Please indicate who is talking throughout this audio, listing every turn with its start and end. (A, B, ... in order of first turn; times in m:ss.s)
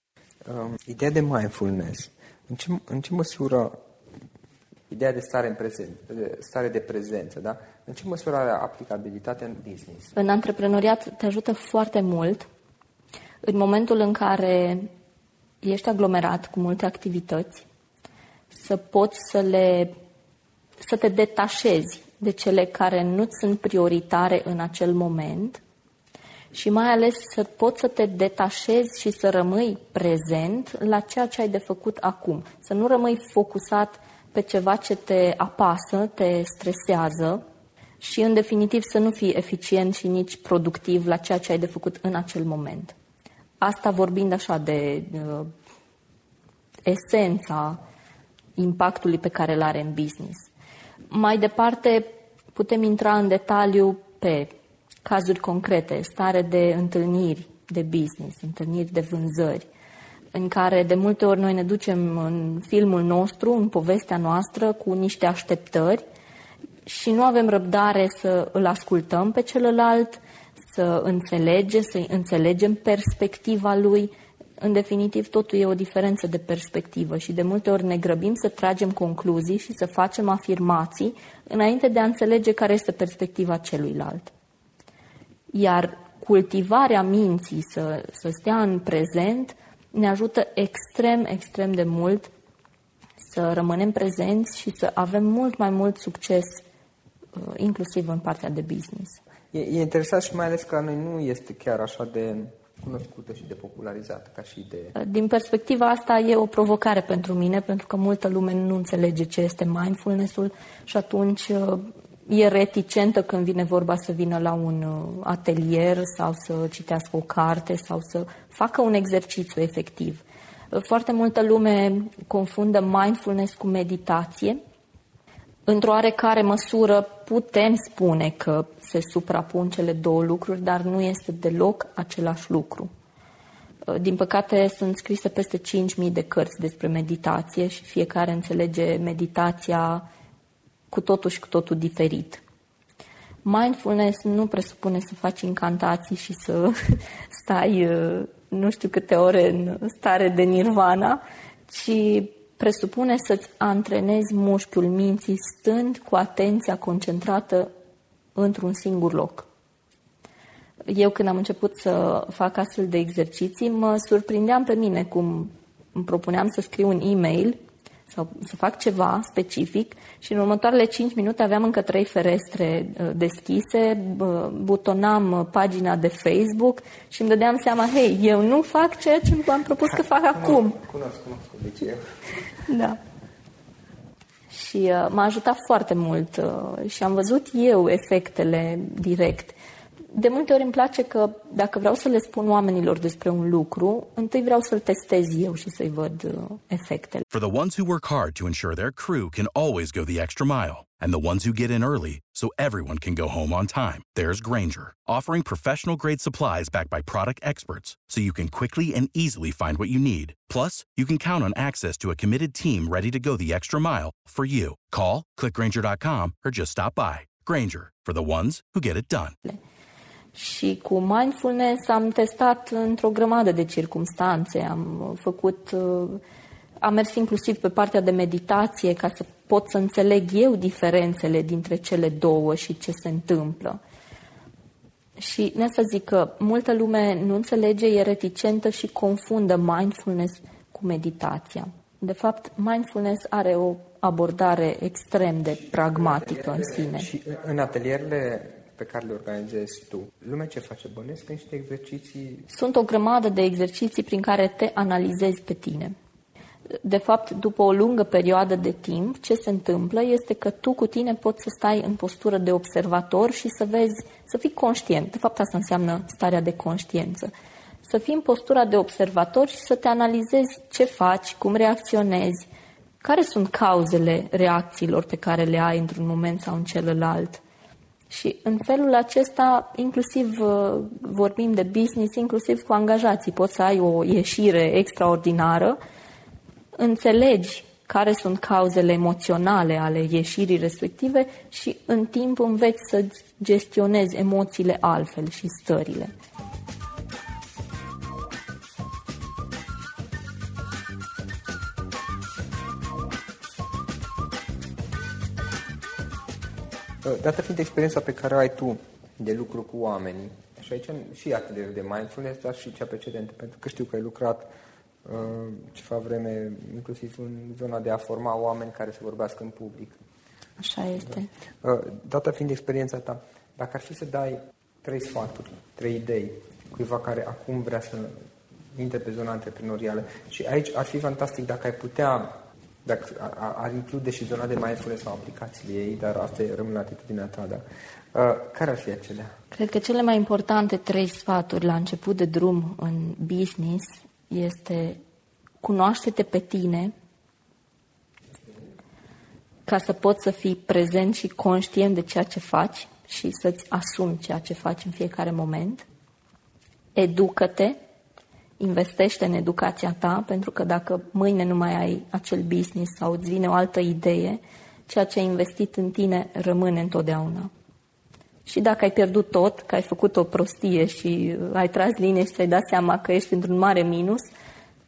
0:00.4-0:03.8 A
0:04.9-0:10.1 A
0:10.1-0:12.5 B
0:13.4-0:14.9 B
0:15.6-0:17.6 B
0:18.5-0:20.0 B
0:20.8-0:25.6 B
0:26.5-0:37.4 B
0:38.0-0:42.9 B
0:43.6-0:45.5 B
0:46.9-0:47.8 B
0:48.6-0:50.5 B
0:51.1-0:54.5 B
0:55.0-0:59.7 B
1:00.3-1:06.0 B
1:06.8-1:24.3 B
1:25.5-1:32.3 B
1:33.2-1:36.6 B
1:37.4-1:39.2 B
1:39.5-1:45.0 A
1:45.0-2:04.6 B
2:05.6-2:12.9 B
2:13.9-2:20.1 B
2:20.9-2:22.4 B
2:23.4-2:26.8 B
2:27.3-2:37.7 B
2:38.4-2:39.5 B
2:40.9-3:00.8 B
2:59.9-3:02.1 A
3:02.6-3:03.0 B
3:04.5-3:09.6 B
3:10.1-3:17.2 B
3:17.3-3:39.4 C
3:40.3-3:46.2 B
3:46.8-3:53.8 B
3:55.2-4:07.1 B
4:05.9-4:12.5 A
4:12.5-4:16.0 B
4:16.8-4:27.3 B
4:27.8-4:32.5 B
4:33.0-4:37.4 B
4:38.1-4:45.8 B
4:46.8-4:56.1 B
5:07.0-5:14.5 A
5:15.0-5:20.0 A
5:20.6-5:21.3 B
5:21.6-5:28.2 A
5:28.7-5:39.3 A
5:39.5-5:45.0 B
5:45.6-5:46.9 B
5:49.7-5:55.8 B
5:57.0-5:57.8 B
5:58.6-6:07.5 B
6:08.5-6:14.3 B